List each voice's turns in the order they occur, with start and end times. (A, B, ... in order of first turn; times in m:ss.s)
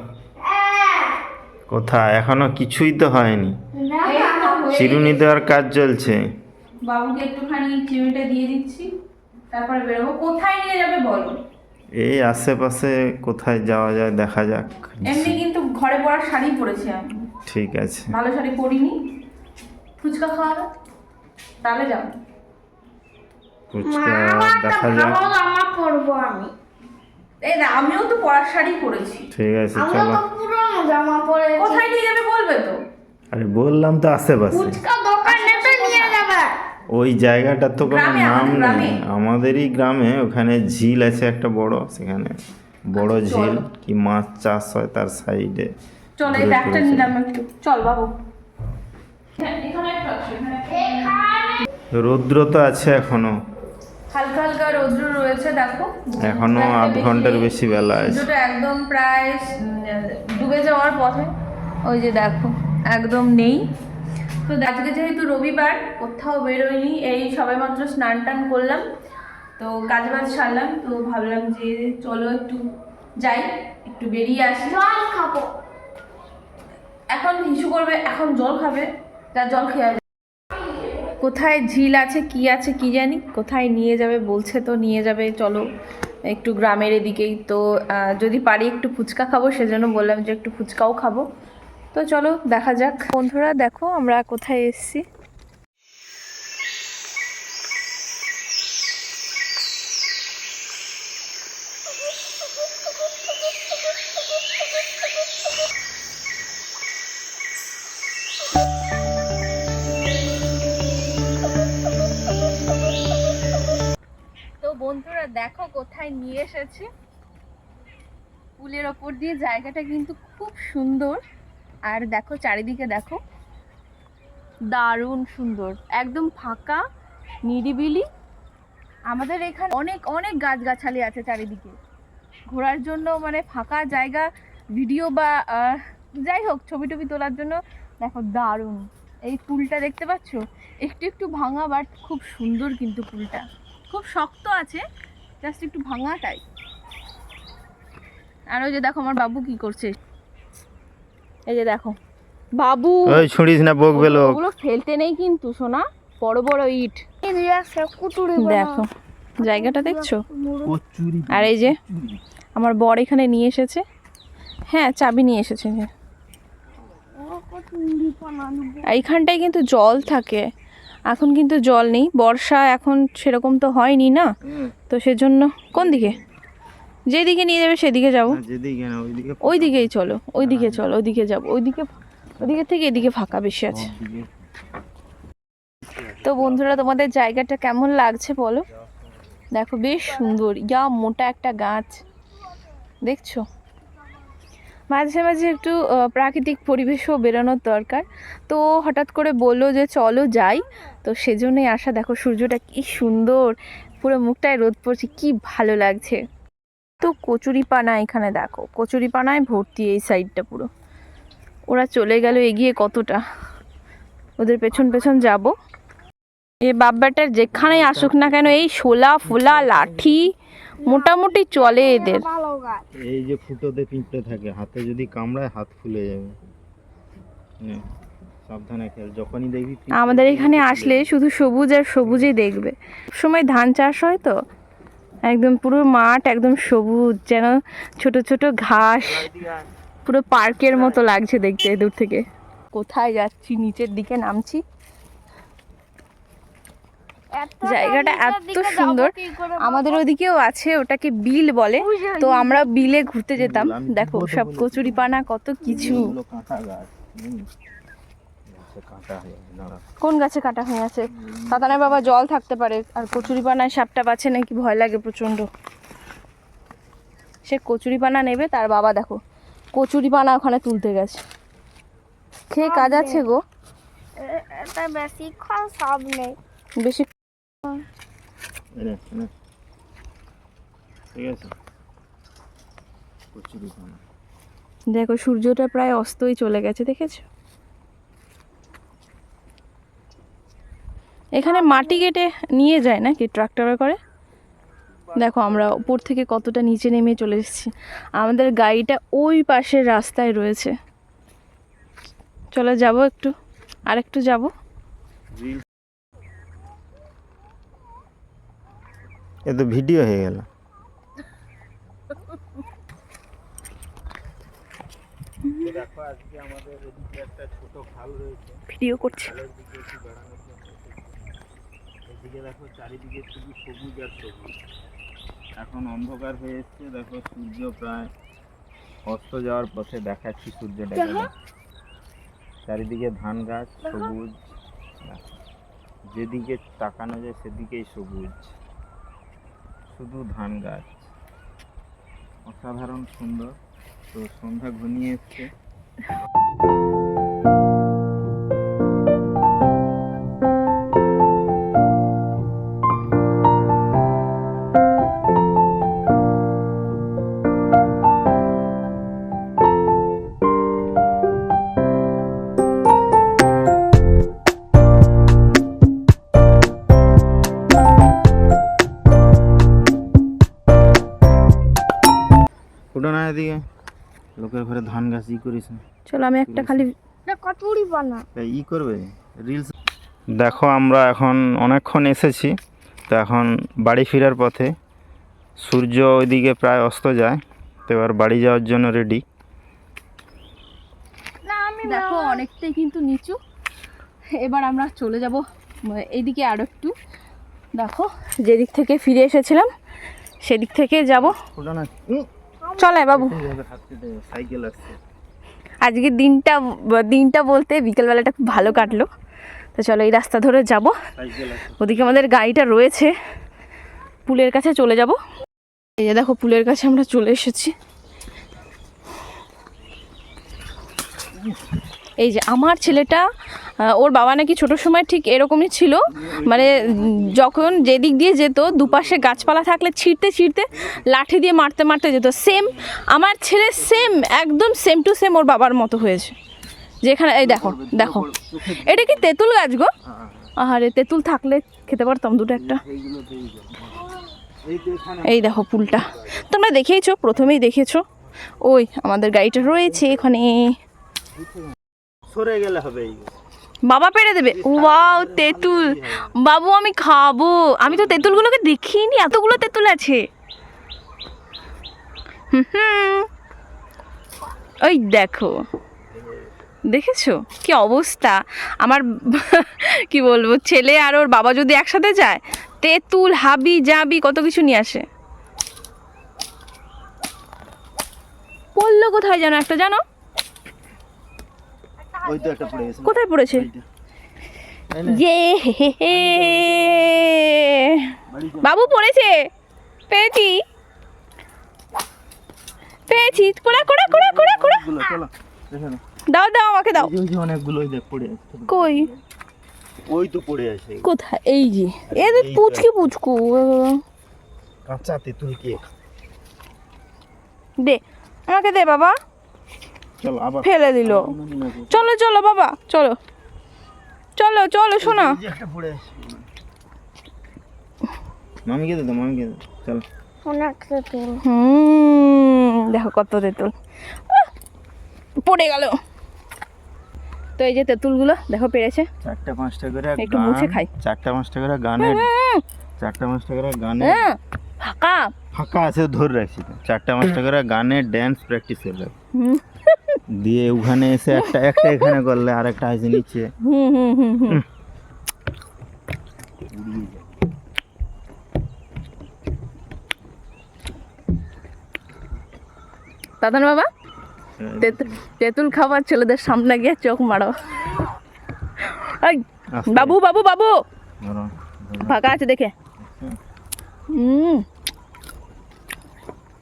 0:00.4-0:01.2 A
0:01.7-0:03.5 B
0:03.7-0:04.9 A
0:04.0-0:05.2 C
0:04.7-0:06.2 B
0:06.9-0:08.9 C
0:09.5-0:11.4 C
0:12.0-0:15.4 B
0:15.1-0:17.3 C
0:17.5-0:18.1 B
0:18.1-0:19.0 C
0:20.0-0:20.7 C
0:21.6-0:22.1 C
0:23.7-0:25.2 B
0:23.8-0:26.5 A
0:27.4-0:29.3 C
0:29.3-0:30.2 B
0:29.8-0:31.9 A
0:31.6-0:32.8 C
0:33.3-0:34.8 B
0:34.5-0:36.5 A
0:35.2-0:36.2 C
0:36.9-0:42.4 B
0:37.8-0:39.0 C
0:42.9-0:45.7 B
0:43.0-0:43.7 C
0:46.2-0:48.1 C
0:46.3-0:47.1 B
0:49.4-0:51.5 C
0:50.9-0:51.5 A
0:51.9-0:53.3 B
0:54.1-1:01.3 C
0:56.2-0:58.3 B
1:01.8-1:03.6 C
1:04.4-1:08.9 C
1:09.6-1:12.6 C
1:13.2-1:14.8 C
1:14.7-1:15.5 A
1:17.1-1:20.0 C
1:21.2-1:25.7 C
1:26.3-1:31.3 C
1:31.9-1:35.0 C
1:54.6-1:56.9 C
1:58.6-2:01.2 C
2:01.9-2:03.2 C
2:04.7-2:06.8 C
2:07.5-2:08.1 C
2:09.1-2:11.8 C
2:12.5-2:24.8 C
2:25.4-2:26.4 C
2:28.5-2:30.0 C
2:31.5-2:32.0 C
2:32.6-2:33.2 C
2:33.1-2:34.4 B
2:33.9-2:37.0 C
2:37.2-2:38.8 A
2:38.4-2:38.9 C
2:39.4-2:40.2 C
2:39.4-2:40.7 A
2:40.6-2:42.2 B
2:41.3-2:41.8 C
2:42.6-2:43.8 C
2:44.7-2:45.9 C
2:47.1-2:48.9 A
2:48.9-2:50.4 C
2:51.1-2:54.3 C
2:54.4-2:54.7 B
2:54.9-2:56.2 C
2:55.8-2:56.2 B
2:57.1-2:58.4 C
2:58.3-3:00.9 B
2:59.4-3:03.9 C
3:03.7-3:04.4 B
3:05.9-3:06.7 B
3:06.2-3:08.7 C
3:08.9-3:09.3 B
3:09.5-3:12.0 C
3:13.0-3:13.4 C
3:14.9-3:26.2 C
3:27.0-3:30.7 C
3:31.7-3:33.2 C
3:34.4-3:35.5 C
3:36.6-3:40.3 C
3:37.5-3:38.7 B
3:39.2-3:40.2 B
3:40.8-3:42.8 A
3:40.8-3:42.3 C
3:43.0-3:46.4 B
3:48.5-3:51.1 B
3:49.9-3:54.4 C
3:52.0-3:52.3 B
3:55.3-3:59.3 C
3:59.0-3:59.7 B
4:00.0-4:04.6 C
4:00.7-4:01.0 B
4:07.4-4:10.0 A
4:07.6-4:16.1 C
4:11.8-4:12.8 A
4:13.4-4:17.4 B
4:18.5-4:19.8 B
4:20.0-4:25.5 C
4:21.1-4:22.2 B
4:27.4-4:29.2 C
4:29.7-4:31.2 C
4:32.5-4:33.4 C
4:32.6-4:33.2 A
4:34.2-4:36.4 A
4:36.8-4:37.1 C
4:38.8-4:39.3 B
4:41.1-4:41.5 B
4:43.3-4:44.0 B
4:44.9-4:47.2 C
4:51.4-4:54.0 C
4:51.4-4:52.1 A
4:54.9-4:56.1 B
4:55.2-5:00.7 C
5:02.5-5:03.3 C
5:03.9-5:04.5 C
5:05.4-5:05.6 B
5:09.5-5:10.5 B
5:15.6-5:21.2 B
5:18.7-5:19.4 C
5:22.1-5:24.6 B
5:25.6-5:28.1 B
5:29.1-5:31.3 B
5:32.7-5:34.4 B
5:35.0-5:35.3 B
5:36.1-5:38.6 B
5:39.9-5:41.1 B
5:42.5-5:43.5 B
5:44.1-5:45.5 B
6:12.9-6:13.6 B
6:14.4-6:15.8 B
6:16.1-6:16.9 C
6:16.5-6:16.8 B
6:17.3-6:18.2 A
6:18.4-6:19.7 B
6:20.3-6:22.5 B
6:23.1-6:24.7 B
6:25.6-6:29.2 B
6:31.4-6:32.4 A
6:31.8-6:33.4 C
6:34.4-6:37.0 C
6:37.8-6:39.7 C
6:40.4-6:41.4 C
6:41.1-6:42.3 B
6:42.6-6:43.0 A
6:42.8-6:43.4 C
6:43.1-6:45.0 B
6:45.8-6:49.1 C
6:48.5-6:49.0 A
6:49.8-6:51.0 C
6:51.2-6:52.4 B
6:51.8-6:53.1 C
6:54.3-6:55.2 C
6:56.0-6:57.7 C
7:02.2-7:03.3 C
7:03.8-7:16.4 C
7:06.1-7:09.8 B
7:12.4-7:13.0 B
7:13.6-7:14.2 B
7:17.0-7:19.9 C
7:17.4-7:19.3 B
7:20.0-7:20.5 B
7:20.6-7:22.8 C
7:22.5-7:24.1 B
7:24.6-7:26.5 B
7:25.2-7:28.0 C
7:28.6-7:30.7 C
7:29.6-7:30.3 B
7:31.4-7:31.8 B
7:32.3-7:33.3 B
7:33.9-7:40.2 C
7:34.5-7:36.3 B
7:37.8-7:38.5 B
7:42.5-7:43.3 C
7:44.8-7:45.6 C
7:46.1-7:46.4 B
7:46.9-7:55.0 C
7:58.8-8:00.0 C
8:02.2-8:03.8 B
8:03.0-8:03.7 C
8:04.9-8:05.2 B
8:05.1-8:09.5 C
8:06.1-8:07.3 B
8:08.3-8:08.9 B
8:10.1-8:10.6 C
8:13.1-8:14.9 C
8:13.1-8:16.0 B
8:16.3-8:17.1 C
8:16.9-8:19.2 B
8:18.7-8:19.1 C
8:20.1-8:21.1 B
8:21.0-8:24.0 C
8:22.1-8:23.2 B
8:24.9-8:25.9 B
8:27.8-8:29.2 C
8:30.2-8:32.1 B
8:30.6-8:31.3 C
8:31.9-8:33.2 C
8:34.4-8:35.4 C
8:35.0-8:36.4 B
8:38.7-8:40.0 B
8:40.4-8:41.4 A
8:41.4-8:43.7 C
8:45.4-8:46.0 C
8:47.6-8:49.1 C
8:49.2-8:52.3 B
8:50.2-8:50.9 C
8:52.0-8:52.6 C
8:53.0-8:54.3 B
8:54.0-8:55.3 C
8:55.5-8:59.1 B
8:59.4-9:00.2 C
9:00.3-9:03.5 B
9:01.3-9:02.1 C
9:03.6-9:04.6 C
9:06.7-9:07.4 B
9:13.4-9:13.9 C
9:14.6-9:15.2 B
9:14.8-9:17.6 C
9:18.8-9:20.8 C
9:19.8-9:20.2 B
9:21.2-9:22.2 B
9:22.0-9:22.7 C
9:23.0-9:23.4 B
9:24.1-9:24.6 C